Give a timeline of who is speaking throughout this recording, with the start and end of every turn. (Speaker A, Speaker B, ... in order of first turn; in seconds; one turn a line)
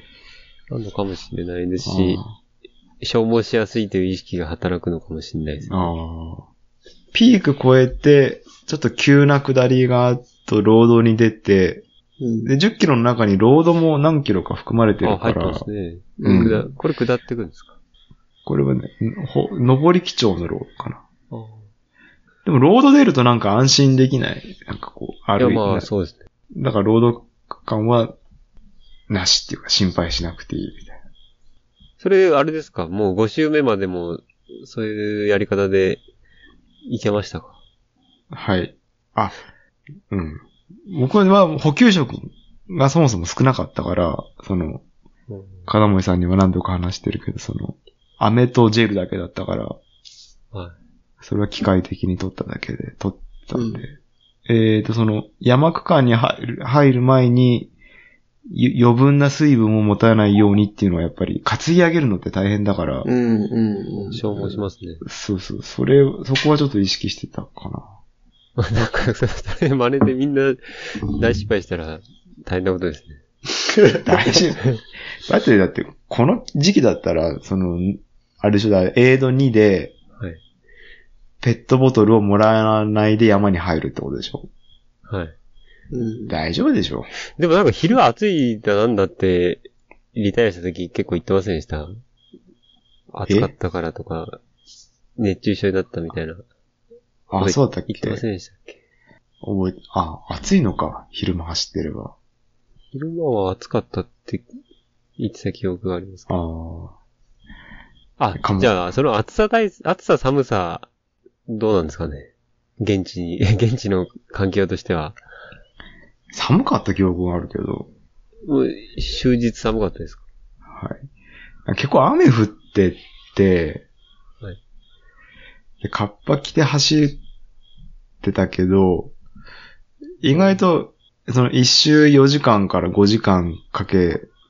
Speaker A: 0.7-2.2
Speaker B: 1.8-2.3
Speaker A: 3.0-5.9
Speaker B: 5.7-6.5
Speaker B: 7.1-11.8
Speaker C: 12.2-12.5
Speaker B: 12.4-15.7
Speaker A: 15.0-17.7
Speaker C: 16.2-16.6
Speaker B: 16.2-16.6
Speaker B: 18.5-21.0
Speaker A: 21.3-21.7
Speaker B: 22.4-25.9
Speaker A: 25.4-26.2
Speaker B: 26.5-28.1
Speaker B: 29.1-31.0
Speaker A: 32.0-36.0
Speaker A: 36.9-37.6
Speaker B: 38.3-39.4
Speaker B: 40.1-44.8
Speaker A: 45.3-45.7
Speaker B: 45.7-49.8
Speaker B: 51.2-53.9
Speaker C: 53.5-53.8
Speaker B: 54.5-57.7
Speaker B: 58.5-63.1
Speaker C: 63.0-64.2
Speaker A: 64.1-65.0
Speaker B: 65.0-67.9
Speaker A: 68.6-73.2
Speaker B: 74.0-74.6
Speaker B: 75.2-80.0
Speaker B: 81.4-84.5
Speaker A: 85.1-85.3
Speaker C: 85.9-86.4
Speaker B: 86.3-87.1
Speaker A: 87.4-92.0
Speaker A: 93.1-94.4
Speaker A: 95.2-96.4
Speaker B: 97.3-98.2
Speaker A: 97.4-98.8
Speaker B: 99.4-102.1
Speaker A: 102.9-104.5
Speaker A: 105.2-106.3
Speaker B: 106.3-106.9
Speaker A: 108.2-110.9
Speaker B: 108.3-108.7
Speaker A: 111.5-115.2
Speaker B: 116.3-117.9
Speaker A: 118.5-120.2
Speaker B: 120.7-121.1
Speaker B: 121.7-123.8
Speaker B: 125.8-127.2
Speaker B: 128.2-129.1
Speaker B: 130.2-134.3
Speaker A: 130.3-130.6